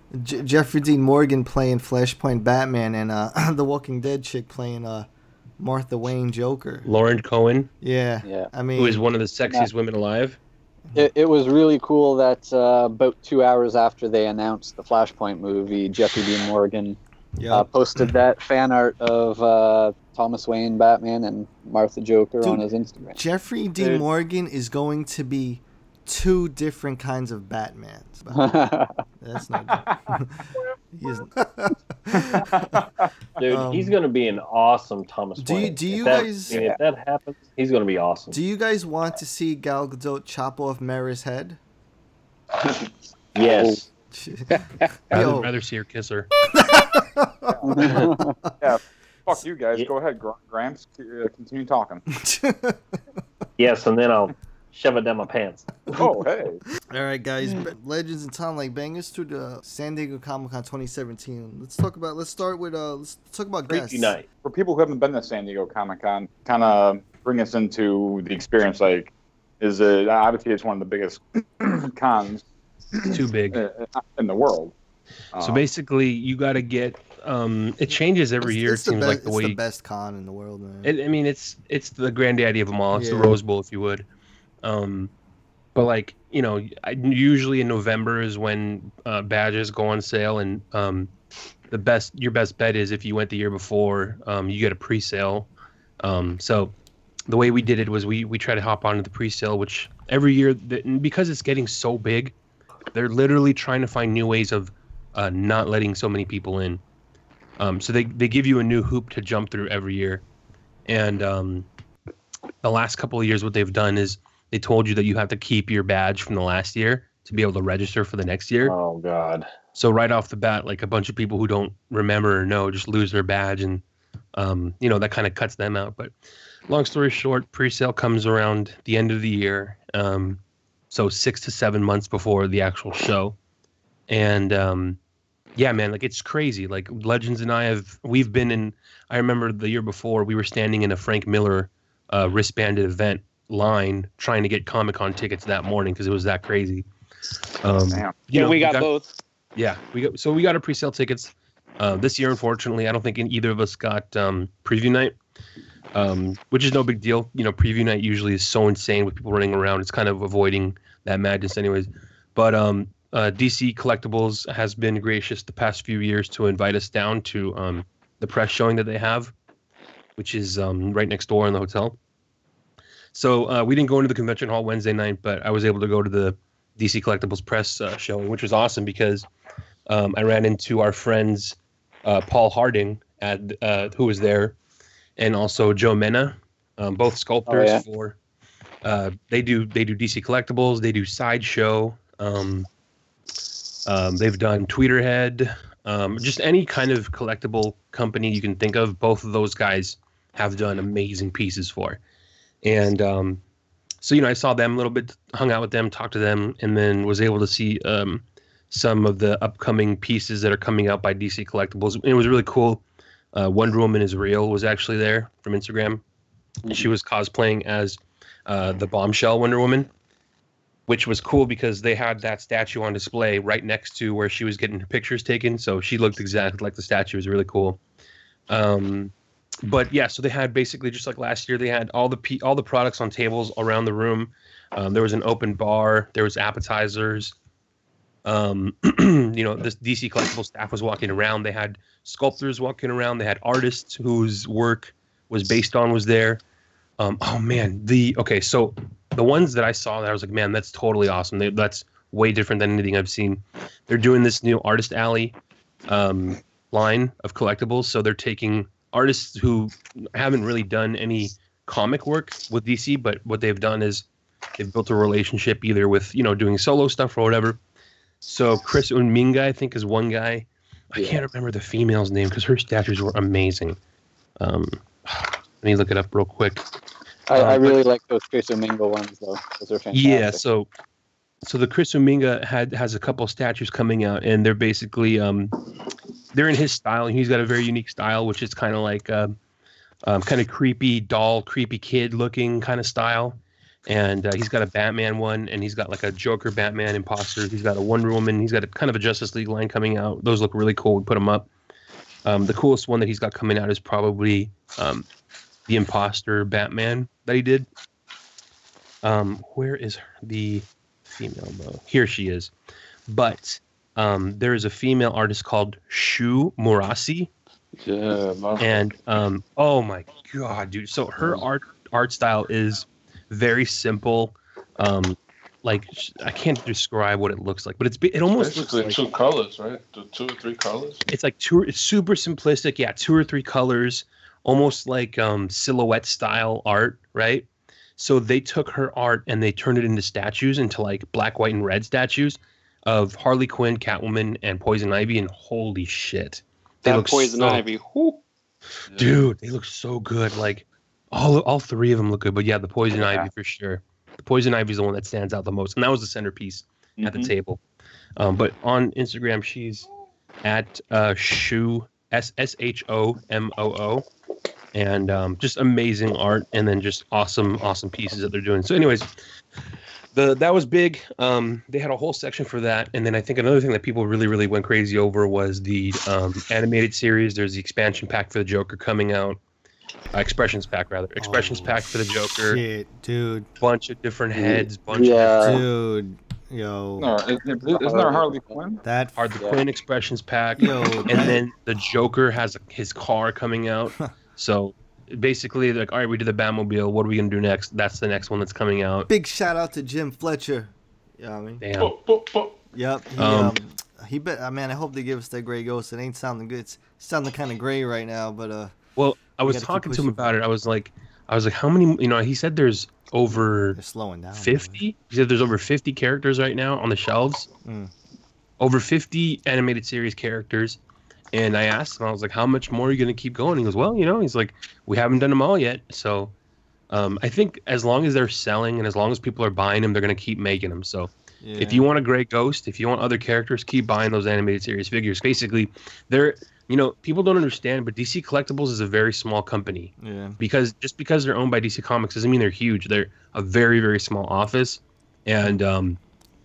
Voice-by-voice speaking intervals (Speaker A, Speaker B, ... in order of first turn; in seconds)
Speaker A: 0.1-5.1, 5.6-6.9, 7.8-9.0, 17.4-18.2, 22.4-28.6, 29.2-32.7, 33.5-34.0, 35.4-36.6, 38.3-41.6, 44.1-45.5, 46.5-48.6, 52.1-53.0, 56.9-64.2, 78.4-80.9, 82.9-83.4, 381.2-383.5, 385.4-387.1, 388.8-389.3, 390.6-391.4, 399.1-401.6, 402.7-408.8, 409.4-410.3, 413.7-414.8, 417.6-417.9, 431.4-431.9, 440.0-440.4
Speaker B: 6.9-7.7, 8.8-10.4, 45.1-46.3, 73.1-73.6, 75.4-79.6, 80.8-84.1, 84.6-85.1, 85.8-91.1, 91.7-95.5, 96.0-96.7, 97.3-102.3, 102.9-106.8, 107.6-110.2, 110.9-111.7, 112.6-118.8, 119.8-123.8, 124.4-126.1, 126.7-133.4, 134.1-135.0, 135.6-146.9, 147.6-148.9, 149.6-155.2, 155.9-169.3, 170.2-172.0, 173.1-179.3, 179.9-184.6, 185.2-188.2, 188.8-192.7, 193.9-202.0, 202.6-203.4, 204.0-212.8, 213.3-216.0, 216.7-219.9, 220.9-227.8, 228.5-229.1, 229.6-237.3, 238.2-246.4, 247.0-255.4, 255.9-264.1, 264.6-267.6, 268.2-273.8, 274.4-276.6, 277.3-277.8, 279.9-280.7, 281.4-285.6, 286.3-289.4, 290.1-301.5, 302.2-305.1, 305.7-307.7, 309.0-312.5, 313.1-317.3, 318.6-329.0, 331.1-347.6, 349.0-357.6, 358.2-359.9, 360.4-364.1, 364.7-369.1, 370.1-379.4, 380.1-382.6, 383.6-385.6, 389.2-399.1, 401.6-401.9, 403.2-403.6, 409.0-413.8, 414.4-417.5, 418.6-420.8, 421.3-426.3, 426.9-446.0
Speaker C: 8.2-8.5, 10.9-17.0, 17.5-23.2, 23.8-24.1, 28.3-29.0, 36.5-36.8, 43.5-43.8, 47.7-48.4, 187.5-187.8, 271.0-271.2, 277.3-280.4, 384.4-385.6, 387.6-388.6
Speaker D: 29.7-30.2, 32.1-33.1, 47.5-48.1, 48.6-52.0, 56.0-56.6, 64.4-74.7, 75.3-75.7, 147.9-148.2, 353.0-353.2, 357.0-357.3, 387.0-388.8
Speaker E: 33.4-38.4, 43.4-43.8, 53.6-56.0, 63.7-64.2, 118.6-119.5
Speaker F: 44.5-44.9, 148.3-149.1, 346.9-348.2
Speaker G: 317.8-318.9, 328.3-331.0, 348.9-349.3, 401.8-402.6